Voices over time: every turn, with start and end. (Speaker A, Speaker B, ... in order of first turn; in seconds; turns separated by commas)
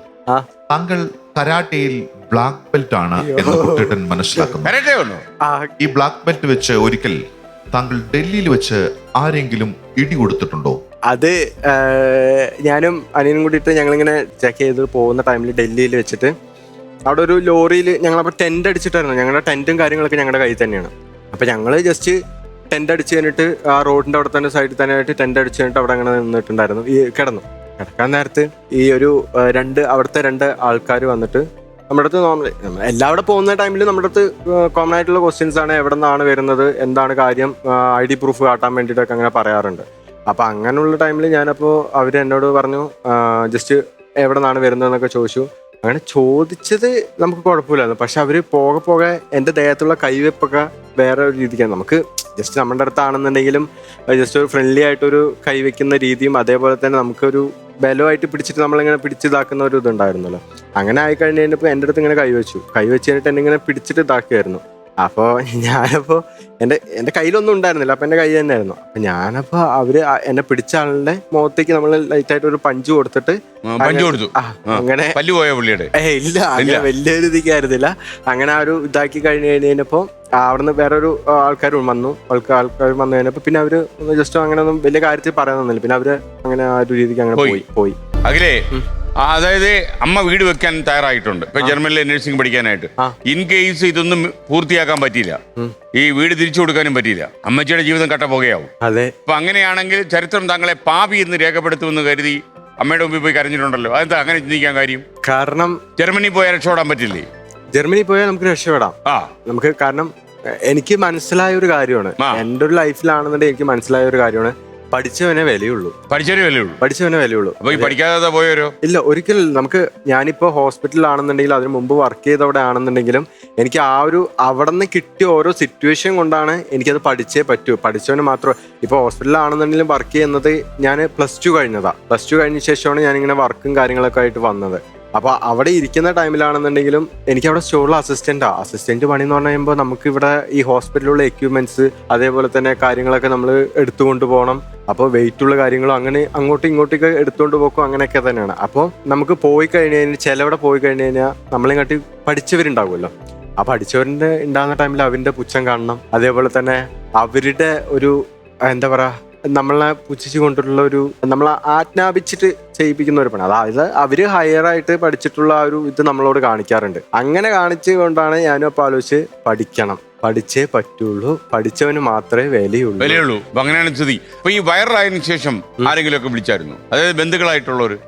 Speaker A: 0.7-4.7, Speaker B: 3.1-4.5, Speaker C: 4.6-5.2, Speaker B: 5.4-5.7, Speaker A: 5.8-7.2, Speaker A: 7.7-10.8, Speaker B: 11.1-16.3, Speaker B: 17.1-22.2, Speaker B: 22.7-75.2, Speaker C: 73.7-75.9, Speaker B: 75.9-88.0, Speaker C: 76.6-76.8, Speaker C: 87.4-87.6, Speaker C: 88.2-88.6, Speaker C: 89.2-95.4, Speaker C: 95.9-98.7, Speaker B: 98.8-99.1, Speaker C: 99.3-105.0, Speaker B: 105.2-105.8, Speaker C: 106.0-107.3, Speaker B: 107.7-110.1, Speaker B: 110.6-115.9, Speaker C: 116.1-116.8, Speaker B: 116.8-118.0, Speaker C: 117.6-118.7, Speaker B: 118.8-173.2, Speaker C: 173.0-178.0